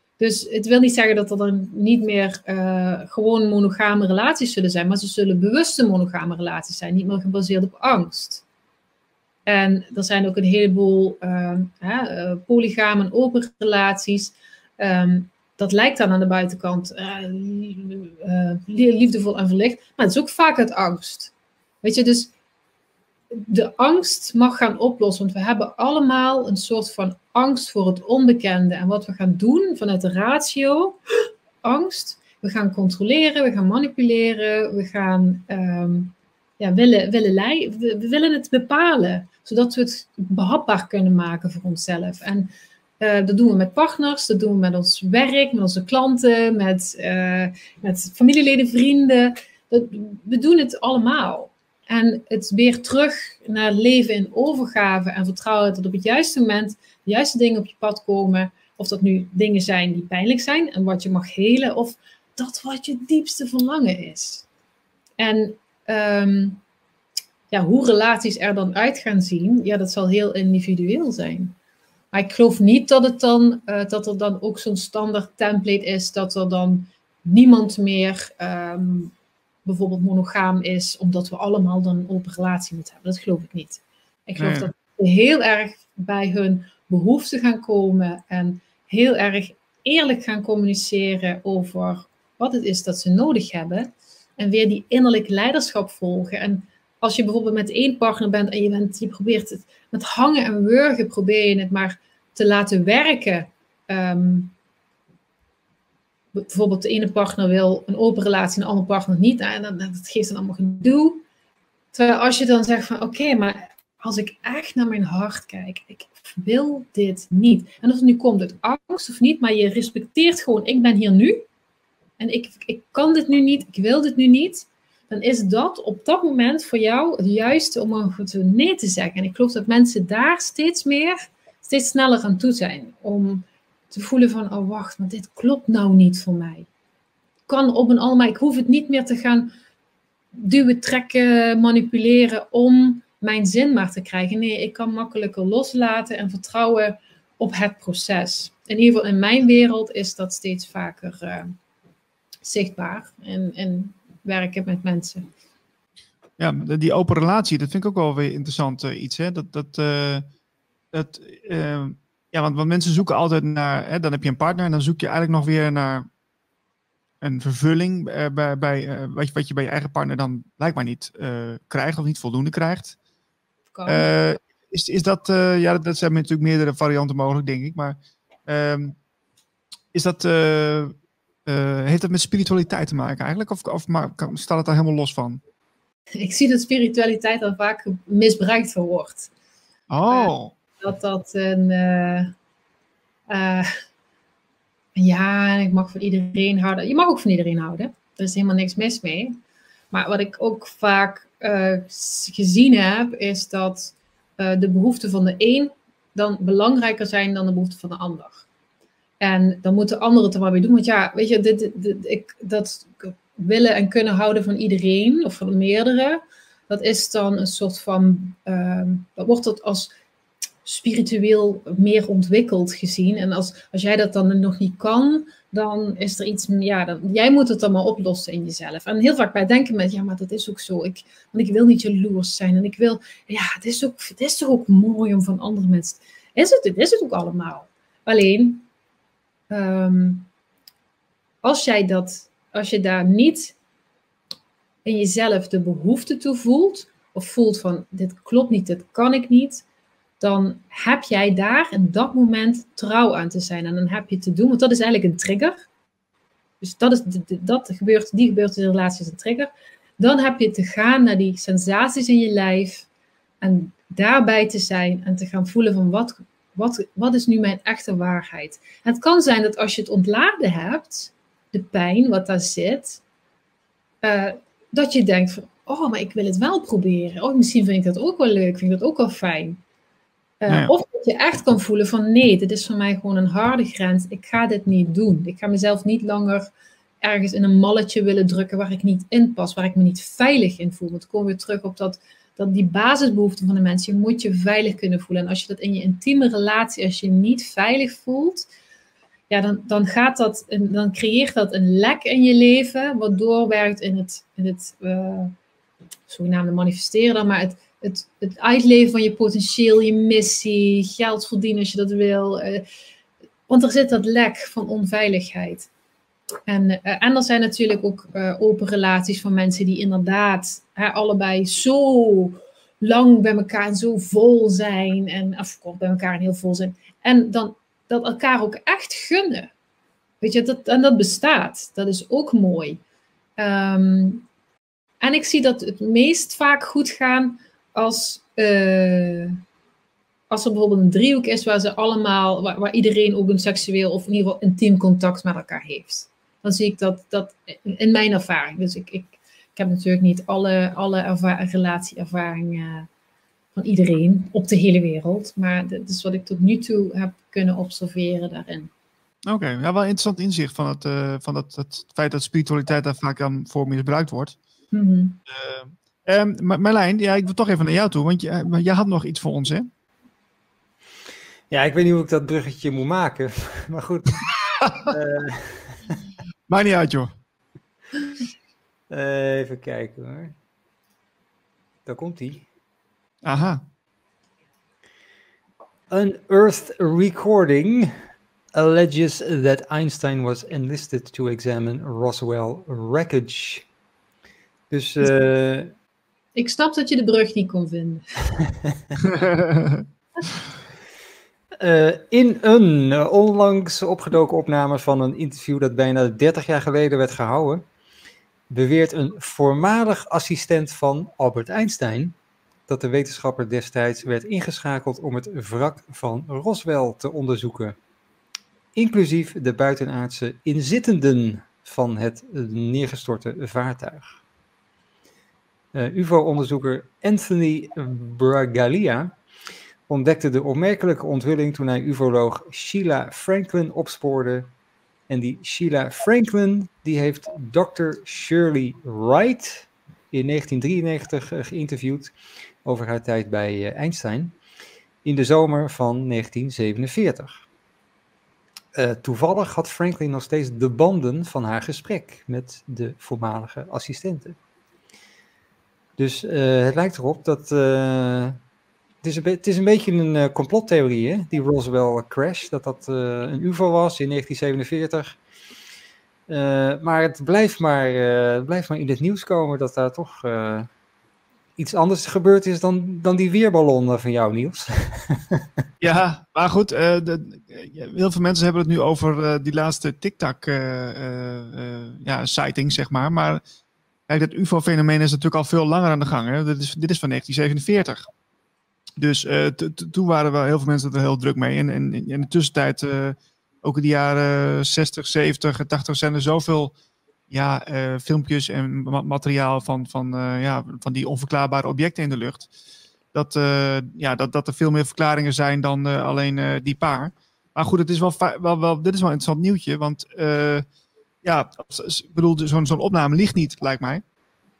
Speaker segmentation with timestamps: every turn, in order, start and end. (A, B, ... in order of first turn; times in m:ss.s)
0:00.2-0:08.4 A
0:09.5-0:22.3 A
0:23.3-0:31.0 A
0:31.6-1:04.5 A
1:05.2-1:06.6 A
1:07.5-1:11.6 A
1:12.1-1:19.1 A
1:19.6-1:44.5 A
1:24.4-1:24.7 B
1:46.3-1:51.2 A
1:51.9-2:01.4 A
2:02.2-2:16.7 A
2:17.5-2:19.5 A
2:20.3-2:31.5 A
2:32.4-2:35.3 A
2:36.4-2:40.3 B
2:40.9-2:46.1 B
2:47.2-2:53.0 B
2:53.7-2:54.1 A
2:53.9-2:59.0 B
2:59.9-3:00.9 B
3:01.5-3:05.4 B
3:06.2-3:09.3 A
3:09.9-3:10.5 B
3:10.1-3:12.3 A
3:13.3-3:13.7 A
3:15.0-3:19.4 A
3:19.9-3:28.5 A
3:29.2-3:39.9 A
3:40.6-3:58.7 A
3:59.5-4:00.3 A
4:01.4-4:03.6 A
4:04.8-4:09.6 A
4:10.2-4:15.6 A
4:16.6-4:22.9 A
4:23.4-4:33.0 A
4:34.0-4:39.6 A
4:40.4-4:46.5 A
4:47.0-4:58.5 A
4:59.3-5:05.3 A
5:06.1-5:12.6 A
5:13.5-5:15.7 A
5:16.5-5:29.5 A
5:30.2-5:32.8 A
5:33.4-5:34.2 A
5:35.0-5:39.4 A
5:40.3-5:52.9 A
5:53.6-5:58.7 A
5:59.3-6:04.4 B
6:04.7-6:05.2 A
6:05.3-6:09.7 B
6:11.5-6:16.0 C
6:16.5-6:17.1 B
6:18.9-6:20.4 C
6:21.9-6:22.4 C
6:23.2-6:23.6 B
6:25.9-6:27.9 C
6:28.5-6:33.7 C
6:34.7-6:35.7 C
6:36.4-6:38.0 A
6:39.0-6:39.8 B
6:41.6-6:47.6 C
6:48.5-6:52.2 C
6:52.7-6:57.8 C
6:58.8-7:04.1 C
7:05.7-7:09.2 C
7:09.9-7:14.5 C
7:15.1-7:22.1 C
7:22.6-7:24.3 C
7:25.0-7:27.4 C
7:28.8-7:34.4 C
7:36.0-7:38.4 C
7:39.0-7:45.2 C
7:46.3-7:50.7 C
7:51.6-7:55.5 C
7:55.8-8:03.4 B
8:04.1-8:08.1 B
8:09.0-8:16.7 B
8:17.3-8:22.5 B
8:23.1-8:30.7 B
8:31.2-8:34.0 B